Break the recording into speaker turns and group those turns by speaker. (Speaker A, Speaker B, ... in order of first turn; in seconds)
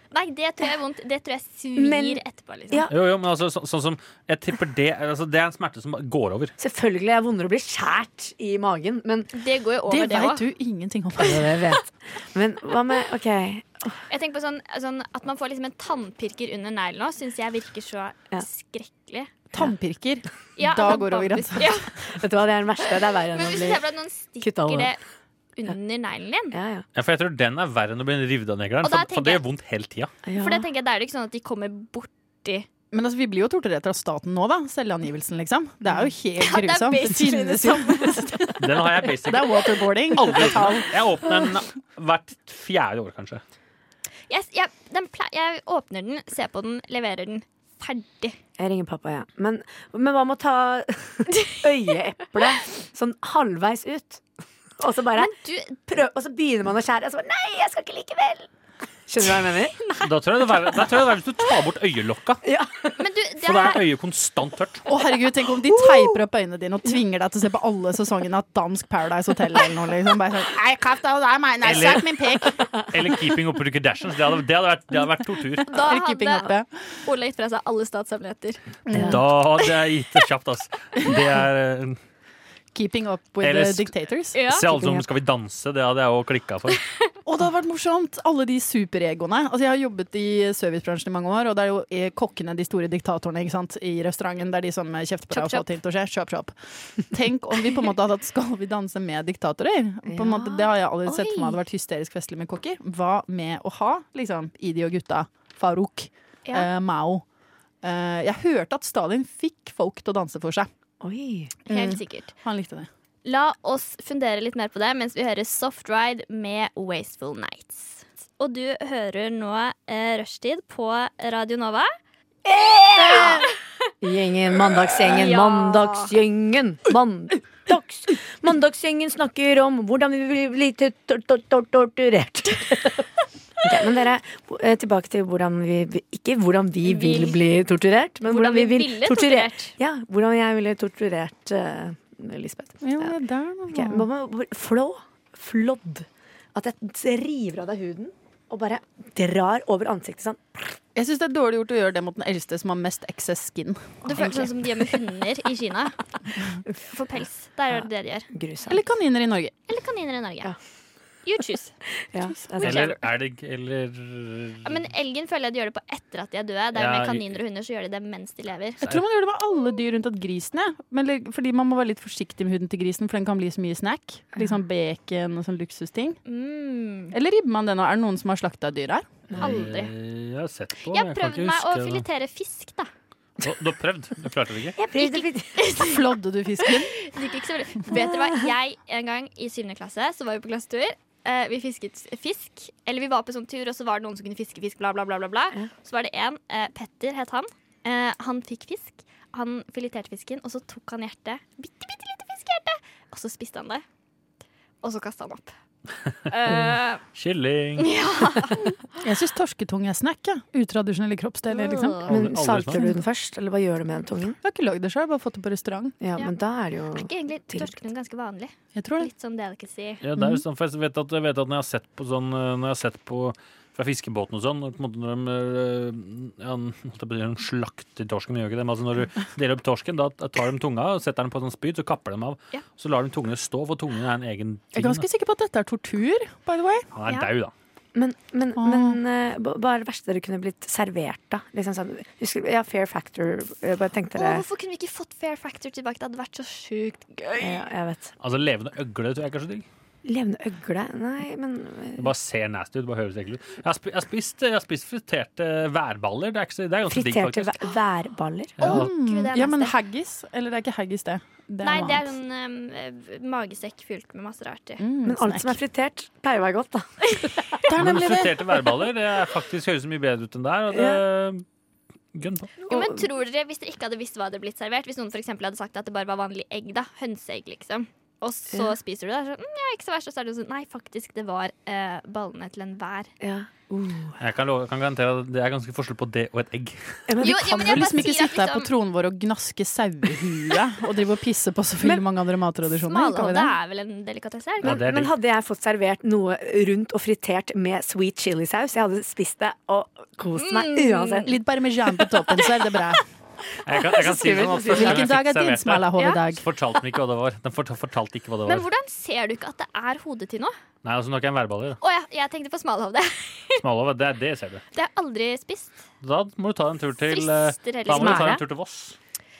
Speaker A: 0.1-2.9, 9.3-10.4, 14.1-19.3, 20.6-22.1, 23.3-25.0, 25.6-26.6, 28.8-29.4, 30.4-32.7, 36.4-38.5, 44.3-48.4, 55.2-55.8, 59.8-60.1, 63.0-63.8, 75.7-78.6, 84.3-84.7, 86.7-87.1, 95.3-95.7, 101.1-101.5, 111.7-112.3, 113.2-121.9, 122.7-123.5, 125.0-126.1, 136.8-137.4, 138.2-139.7, 154.1-156.0, 156.8-158.3, 159.7-160.5, 161.2-161.7, 162.6-163.0, 164.6-168.8, 176.3-177.2, 179.4-179.9, 180.9-182.9, 184.9-203.8, 204.8-205.5, 206.3-207.0, 207.8-208.7, 211.5-212.1, 216.9-220.0, 244.2-247.7, 258.6-259.7, 261.6-264.8, 267.1-267.7, 272.7-283.1, 287.2-288.7, 292.7-294.8, 300.4-301.3, 308.5-310.5, 311.8-313.6, 314.7-315.8, 317.1-318.4
Speaker B: 1.8-2.9, 6.6-9.3, 11.2-14.0, 22.1-23.9, 24.4-24.9, 26.5-26.9, 30.2-30.7, 48.6-54.2, 54.8-58.5, 59.1-59.8, 62.4-63.0, 65.7-66.1, 84.6-85.0, 100.1-100.7, 111.0-111.5, 122.5-123.5, 124.0-133.1, 133.6-143.1, 143.7-150.8, 154.1-155.0, 158.3-158.8, 162.1-162.9, 184.8-185.6, 187.9-188.3, 212.1-214.4, 216.0-217.7, 237.9-244.4, 247.4-248.1, 250.0-252.1, 256.9-258.6, 265.1-267.5, 270.7-271.0, 272.6-273.1, 283.2-284.2, 287.1-287.9, 294.6-301.3, 303.7-305.1, 317.9-318.4
Speaker C: 2.9-6.5, 27.0-30.1, 38.6-43.4, 60.0-62.4, 63.4-64.9, 71.6-72.3, 72.9-75.8, 79.0-82.0, 83.4-86.8, 162.6-164.9, 166.7-167.4, 179.3-182.0, 183.4-184.8, 207.1-207.9, 212.1-212.9, 220.0-235.1, 236.9-237.5, 248.2-249.7, 252.0-257.7, 258.6-258.9, 267.7-271.4, 272.1-272.5, 284.2-287.0, 294.6-295.1, 303.6-308.7, 310.8-311.8, 313.6-314.6, 316.0-319.0
Speaker D: 9.9-11.7, 19.5-21.8, 32.9-40.9, 64.9-72.6, 75.7-76.7, 78.9-79.2, 82.7-84.4, 87.2-107.2, 107.8-110.7, 111.7-112.9, 142.8-144.1, 150.9-154.1, 158.7-159.5, 168.8-176.2, 177.1-179.1, 185.8-186.9, 209.0-212.1, 212.7-213.0, 214.4-216.0, 218.8-219.1, 234.7-236.9, 238.6-239.0, 258.6-262.1, 264.8-265.6, 267.7-268.5, 287.2-293.5, 301.2-303.0, 304.7-306.4